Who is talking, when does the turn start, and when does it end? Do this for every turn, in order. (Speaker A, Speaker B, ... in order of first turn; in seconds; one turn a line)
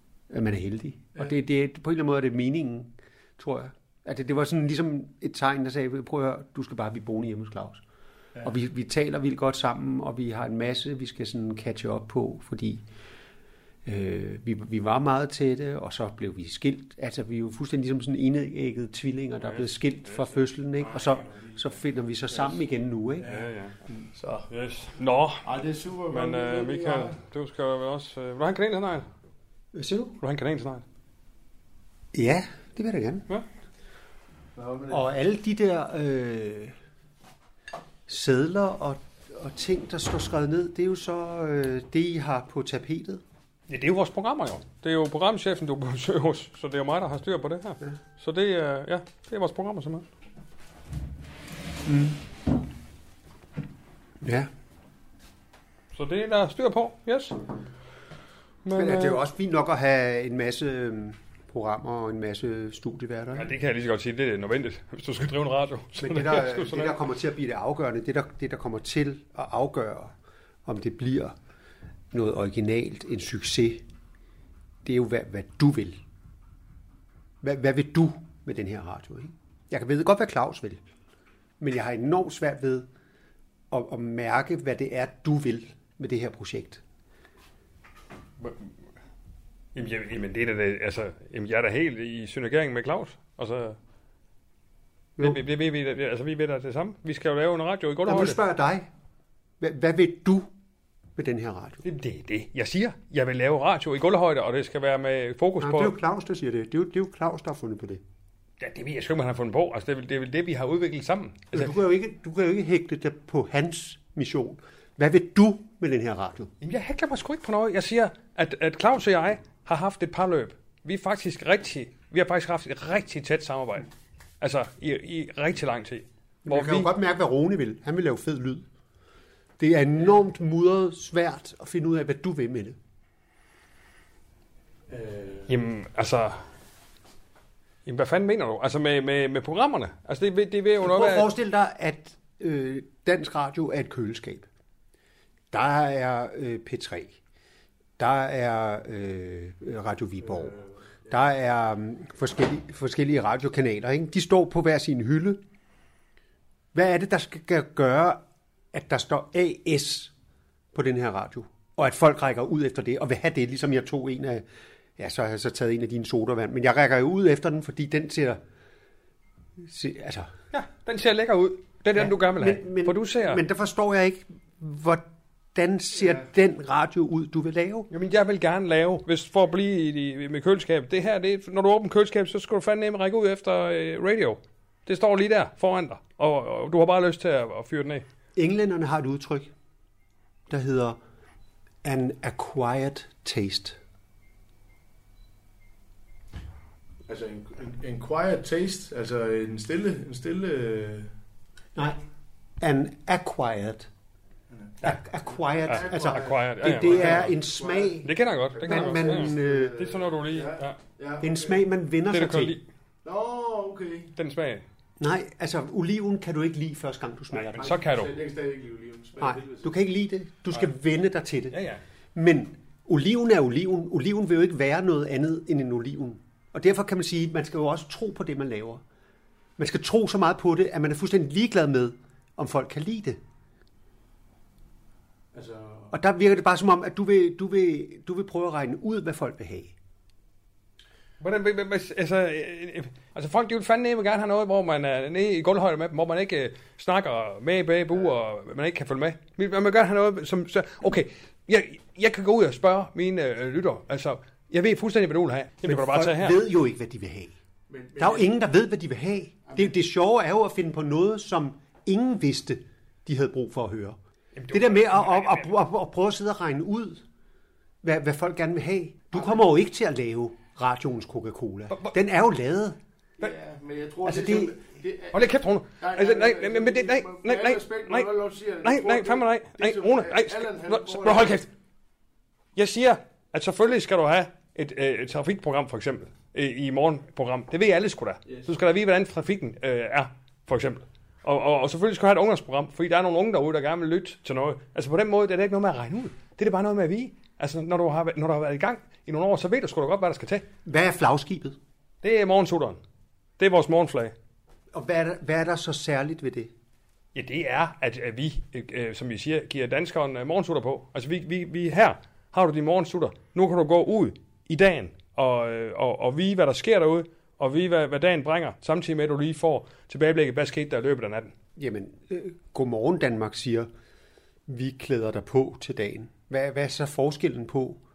Speaker A: 0.3-7.8
Speaker A: 8.4-12.8
Speaker A: 13.8-23.2
Speaker B: 19.4-20.3
Speaker C: 21.3-21.6
Speaker C: 22.3-22.6
Speaker C: 23.2-24.5
Speaker B: 23.2-23.8
Speaker B: 24.5-25.5
Speaker C: 25.4-27.2
Speaker B: 26.1-29.1
Speaker A: 29.7-30.2
Speaker B: 30.2-30.8
Speaker A: 32.1-33.3
Speaker C: 34.5-35.1
Speaker A: 34.9-36.8
Speaker A: 38.1-43.2
Speaker B: 43.7-50.1
Speaker A: 51.9-52.2
Speaker A: 54.2-54.5
Speaker B: 55.9-57.4
Speaker B: 58.6-59.2
Speaker A: 58.8-63.5
Speaker B: 63.3-67.0
Speaker A: 66.0-70.1
Speaker A: 70.7-71.4
Speaker A: 72.1-73.8
Speaker A: 74.8-76.0
Speaker A: 77.4-80.8
Speaker A: 81.6-82.9
Speaker A: 83.7-86.8
Speaker B: 88.4-88.7
Speaker B: 89.8-93.8
Speaker B: 95.2-98.4
Speaker A: 98.1-98.9
Speaker A: 99.6-100.5
Speaker A: 101.2-101.8
Speaker B: 101.8-106.0
Speaker A: 105.6-108.0
Speaker B: 108.6-111.8
Speaker A: 111.5-116.5
Speaker B: 116.6-123.9
Speaker B: 124.4-126.9
Speaker A: 126.5-128.7
Speaker A: 129.6-132.8
Speaker C: 134.9-135.5
Speaker B: 135.5-136.5
Speaker B: 137.9-141.3
Speaker A: 140.8-144.5
Speaker A: 145.5-147.2
Speaker A: 148.0-150.6
Speaker C: 150.3-151.1
Speaker A: 151.1-155.4
Speaker A: 156.7-160.1
Speaker A: 160.7-164.4
Speaker A: 165.0-168.4
Speaker A: 169.6-170.3
Speaker B: 170.5-173.4
Speaker A: 171.9-177.9
Speaker B: 177.9-188.0
Speaker A: 188.4-189.5
Speaker A: 190.5-191.0
Speaker A: 191.8-193.8
Speaker C: 197.1-201.1
Speaker A: 201.8-202.0
Speaker A: 202.6-203.9
Speaker C: 204.5-211.6
Speaker A: 204.8-208.1
Speaker B: 205.7-207.4
Speaker B: 208.0-210.8
Speaker A: 208.7-209.8
Speaker A: 211.2-212.6
Speaker B: 212.1-212.6
Speaker C: 213.0-214.1
Speaker B: 214.2-214.7
Speaker A: 215.0-217.8
Speaker B: 217.3-218.1
Speaker C: 217.6-219.7
Speaker A: 219.2-221.6
Speaker B: 221.5-221.8
Speaker A: 222.2-228.8
Speaker A: 229.6-233.2
Speaker C: 235.3-235.9
Speaker A: 235.9-239.7
Speaker B: 241.2-256.4
Speaker A: 255.7-257.3
Speaker C: 257.7-258.3
Speaker A: 258.0-264.0
Speaker C: 259.5-259.7
Speaker B: 264.4-265.5
Speaker A: 264.5-267.0
Speaker A: 267.8-272.8
Speaker C: 273.2-275.2
Speaker A: 274.0-274.6
Speaker B: 275.1-278.1
Speaker C: 275.8-281.4
Speaker B: 278.6-281.5
Speaker B: 282.6-300.5
Speaker A: 300.6-301.6
Speaker B: 302.0-302.8
Speaker B: 303.4-304.1
Speaker A: 304.7-306.5
Speaker B: 307.1-321.3
Speaker A: 321.6-323.7
Speaker A: 324.5-327.8